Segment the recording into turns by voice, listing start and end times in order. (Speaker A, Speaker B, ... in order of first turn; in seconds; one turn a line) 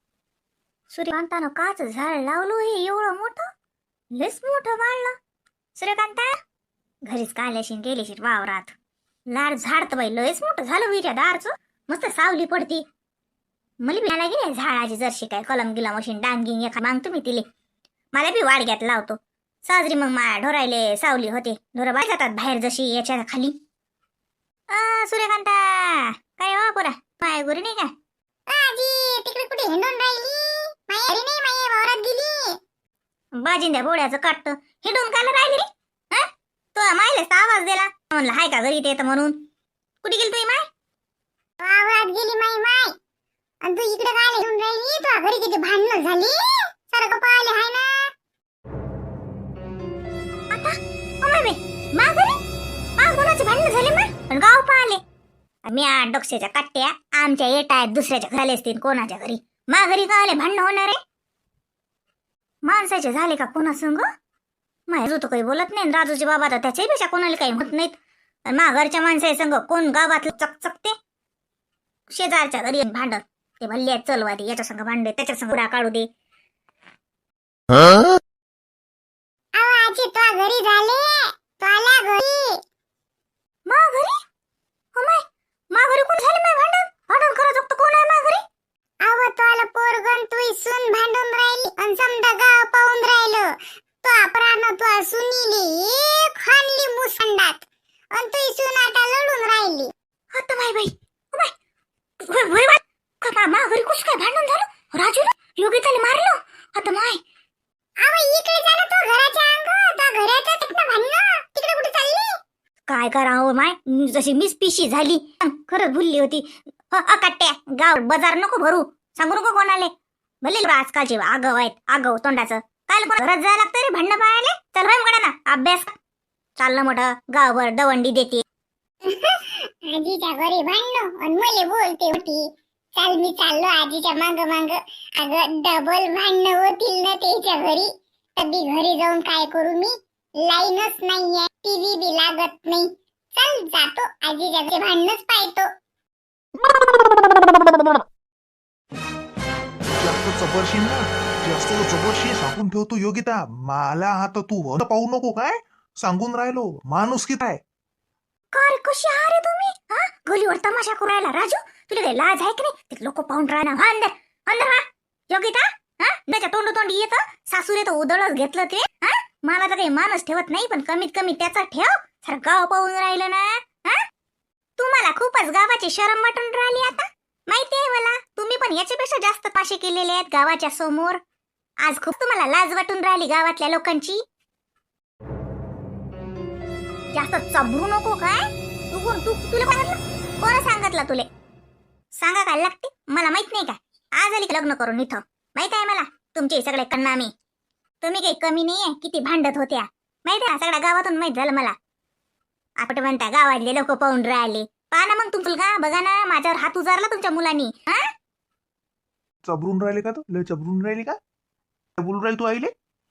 Speaker A: 0.9-3.5
Speaker A: 4.1-5.2
Speaker A: 5.8-6.3
Speaker A: 7.0-8.7
Speaker A: 9.3-12.8
Speaker A: 13.8-17.4
Speaker A: 18.1-23.6
Speaker A: 24.7-27.9
Speaker B: 28.5-32.6
Speaker A: 33.4-39.4
Speaker A: 40.0-40.6
Speaker B: 41.6-43.0
Speaker B: 43.6-48.1
Speaker A: 50.5-52.4
Speaker A: 53.0-55.0
Speaker A: 55.6-61.0
Speaker A: 62.6-64.1
Speaker A: 64.9-70.9
Speaker A: 72.1-76.1
Speaker B: 79.5-82.6
Speaker A: 83.7-84.1
Speaker A: 84.9-88.4
Speaker B: 89.0-99.9
Speaker A: 100.3-101.5
Speaker A: 102.2-107.2
Speaker B: 108.0-112.4
Speaker A: 112.9-126.0
Speaker A: 126.6-128.4
Speaker B: 129.0-145.7
Speaker C: 149.9-157.6
Speaker A: 158.5-174.0
Speaker A: 174.8-181.2
Speaker A: 181.8-184.2
Speaker A: 187.1-191.3
Speaker A: 192.2-197.3
Speaker A: 198.0-201.7
Speaker A: 202.8-208.1
Speaker C: 209.4-211.2
Speaker C: 212.0-212.7